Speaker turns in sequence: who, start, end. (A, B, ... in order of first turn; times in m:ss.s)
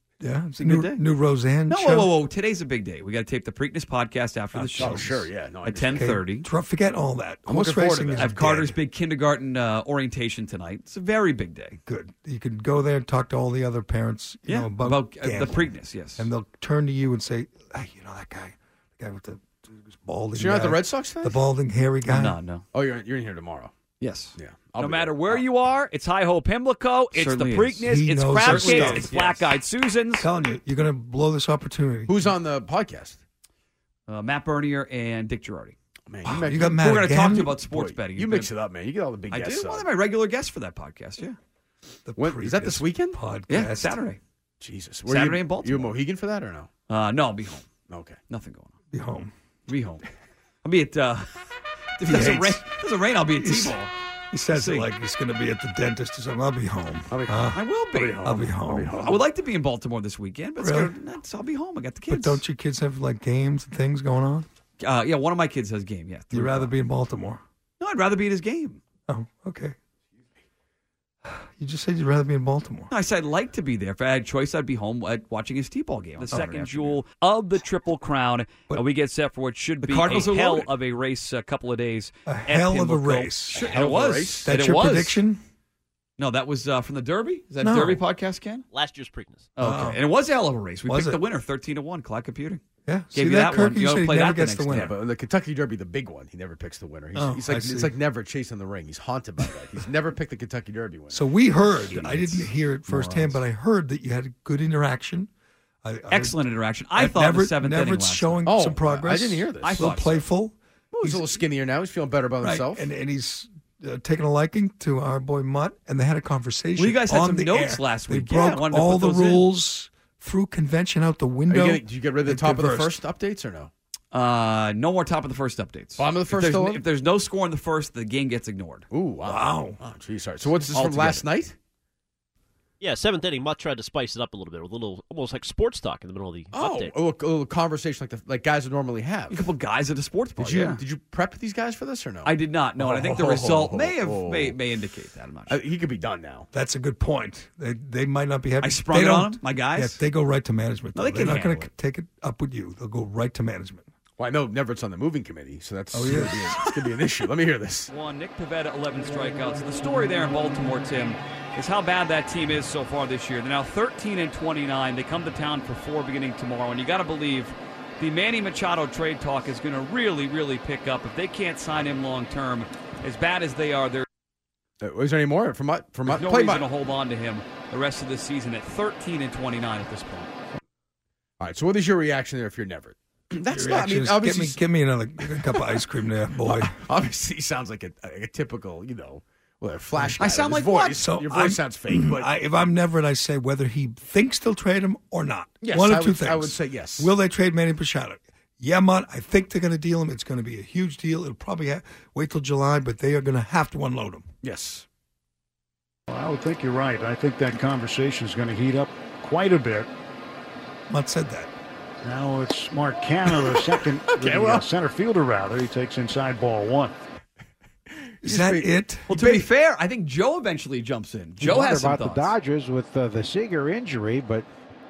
0:00.2-0:02.1 A
0:00.6-0:01.0 B
0:01.7-0:06.5 B
0:04.5-0:05.1 A
0:04.8-0:06.1 C
0:05.9-0:08.8 A
0:07.5-0:08.3 C
0:08.2-0:11.8 B
0:11.8-0:22.4 A
0:14.5-0:16.3 B
0:20.3-0:21.4 C
0:22.1-0:22.6 B
0:22.7-0:23.7 C
0:24.0-0:30.2 B
0:24.4-0:25.4 C
0:27.2-0:27.8 D
0:27.8-0:29.1 A
0:28.4-0:29.5 C
0:30.2-0:32.3 A
0:32.1-0:33.2 C
0:34.1-0:35.7 B
0:36.1-0:36.8 C
0:36.2-0:37.5 A
0:36.5-0:38.5 B
0:37.5-0:39.9 C
0:39.3-0:41.4 B
0:42.0-0:44.0 A
0:42.2-0:43.2 C
0:43.5-0:44.2 B
0:44.6-0:46.7 C
0:45.1-0:46.0 B
0:46.9-0:47.7 B
0:47.9-0:48.2 C
0:48.3-0:48.7 B
0:48.9-0:49.3 A
0:49.7-0:50.0 B
0:50.6-0:51.4 B
0:52.0-0:53.9 B
0:52.0-0:52.6 A
0:53.3-0:53.8 A
0:54.3-0:57.6 A
0:54.5-0:54.9 B
0:57.1-0:59.2 C
0:57.5-0:58.3 B
0:58.2-0:59.0 A
0:59.0-1:02.4 B
1:00.6-1:00.9 A
1:02.1-1:04.5 A
1:04.8-1:06.7 B
1:06.3-1:07.4 A
1:07.8-1:08.8 B
1:09.1-1:09.8 A
1:11.2-1:12.9 A
1:12.9-1:25.2 B
1:16.3-1:17.0 A
1:19.8-1:20.7 D
1:19.9-1:20.6 C
1:22.2-1:23.7 A
1:23.5-1:24.5 C
1:24.4-1:25.4 A
1:26.2-1:28.6 B
1:27.6-1:28.0 A
1:28.7-1:29.5 D
1:29.6-1:32.6 B
1:29.6-1:30.0 A
1:30.9-1:31.2 A
1:32.8-1:34.9 A
1:33.1-1:34.9 B
1:34.7-1:41.2 C
1:37.1-1:37.9 A
1:41.1-1:45.3 A
1:41.8-1:43.4 B
1:45.8-1:46.4 A
1:46.1-1:48.4 B
1:46.9-1:51.2 A
1:48.4-1:50.1 C
1:49.6-1:50.2 B
1:50.9-1:52.9 C
1:52.4-2:03.0 A
1:56.8-1:59.4 B
2:01.5-2:03.7 C
2:04.1-2:08.8 B
2:06.0-2:06.8 C
2:08.9-2:11.5 C
2:09.2-2:09.8 A
2:10.7-2:11.2 B
2:12.8-2:17.0 D
2:16.5-2:19.5 C
2:19.3-2:20.8 B
2:20.4-2:24.6 C
2:22.2-2:25.6 B
2:25.5-2:26.5 C
2:26.5-2:33.9 A
2:28.6-2:30.0 B
2:30.9-2:31.7 B
2:34.2-2:37.9 C
2:35.9-2:36.7 A
2:37.9-2:54.0 B
2:54.8-2:56.7 C
2:56.1-3:00.3 B
3:01.4-3:04.6 C
3:03.3-3:06.7 A
3:05.2-3:05.8 C
3:06.4-3:12.3 C
3:10.2-3:11.0 B
3:11.0-3:24.2 A
3:15.6-3:17.1 C
3:24.4-3:24.8 C
3:26.1-3:29.9 E
3:30.9-3:31.5 A
3:32.0-3:36.9 E
3:33.3-3:34.7 C
3:38.0-3:38.7 C
3:38.2-3:39.4 A
3:39.1-3:42.3 B
3:41.4-3:44.5 F